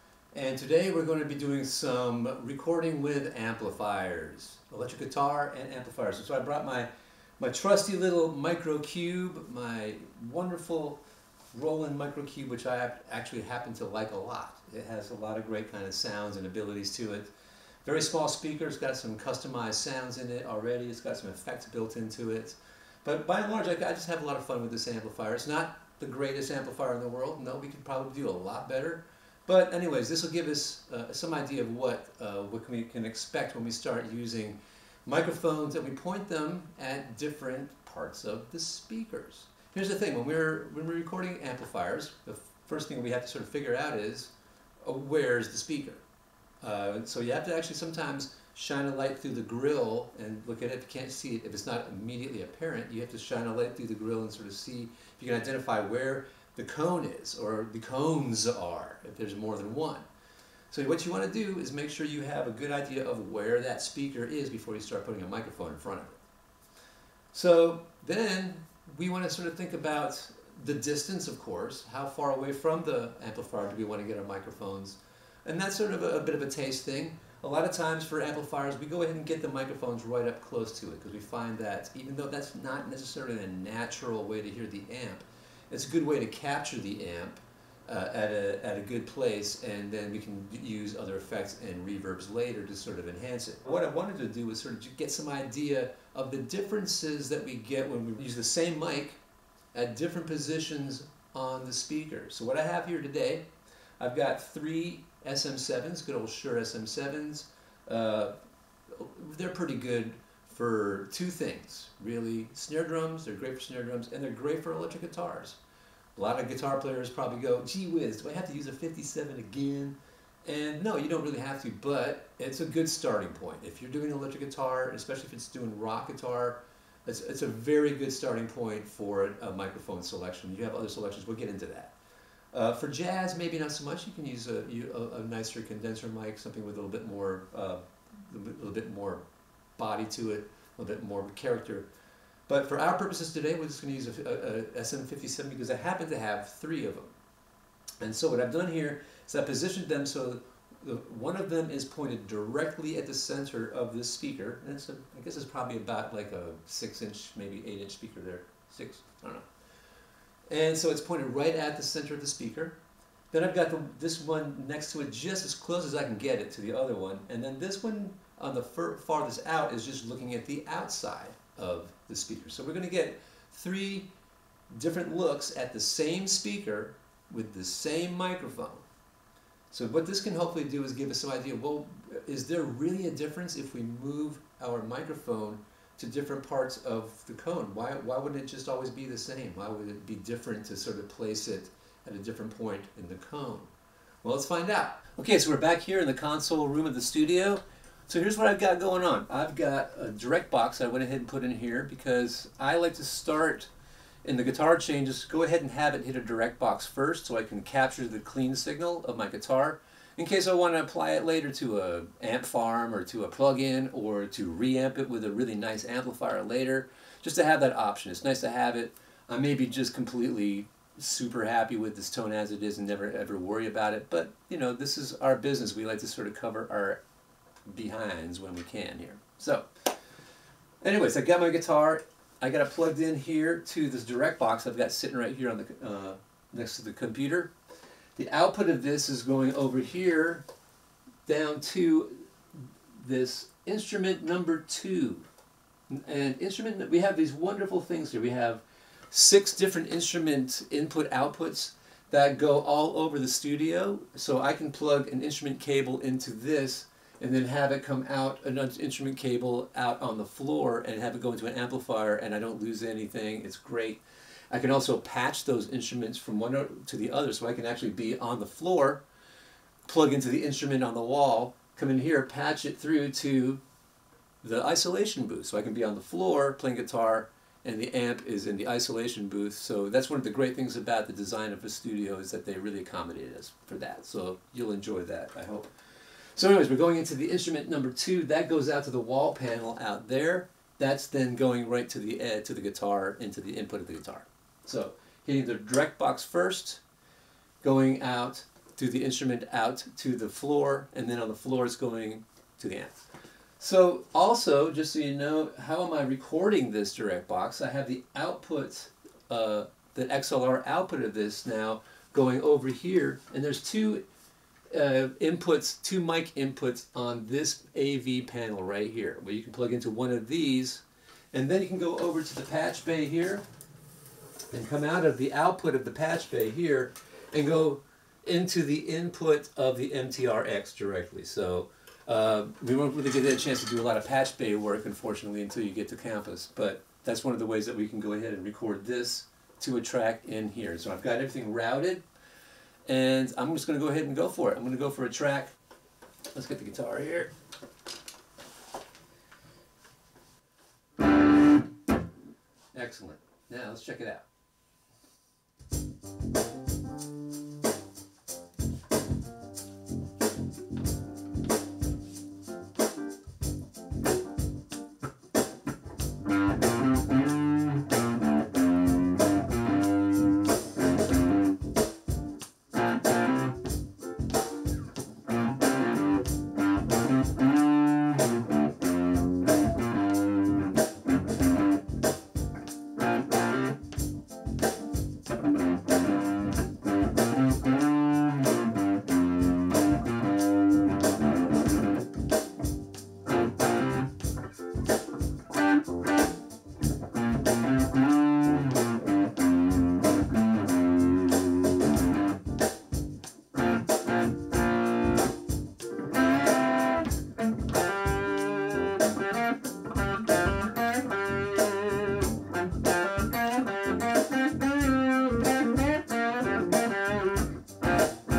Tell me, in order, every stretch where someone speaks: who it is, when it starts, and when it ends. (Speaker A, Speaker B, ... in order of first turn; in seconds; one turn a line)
Speaker A: 0.3-17.3
Speaker A: 17.8-46.0
Speaker A: 46.6-60.0
Speaker A: 60.7-66.2
Speaker A: 67.3-99.2
Speaker A: 99.7-115.6
Speaker A: 116.2-131.9
Speaker A: 132.5-139.2
Speaker A: 139.8-141.9
Speaker A: 142.5-147.1
Speaker A: 148.0-159.5
Speaker A: 160.5-162.8
Speaker A: 163.3-174.1
Speaker A: 174.7-178.8
Speaker A: 179.7-193.7
Speaker A: 194.2-203.7
Speaker A: 204.2-227.0
Speaker A: 227.7-229.7
Speaker A: 230.8-237.5
Speaker A: 238.2-240.4
Speaker A: 241.2-242.3
Speaker A: 242.9-245.3
Speaker A: 245.9-269.0
Speaker A: 269.8-273.6
Speaker A: 274.4-285.7
Speaker A: 286.4-296.8
Speaker A: 297.6-303.1
Speaker A: 303.6-314.1
Speaker A: 314.7-323.4
Speaker A: 324.5-342.0
Speaker A: 342.9-345.6
Speaker A: 346.3-347.3
Speaker A: 352.7-354.2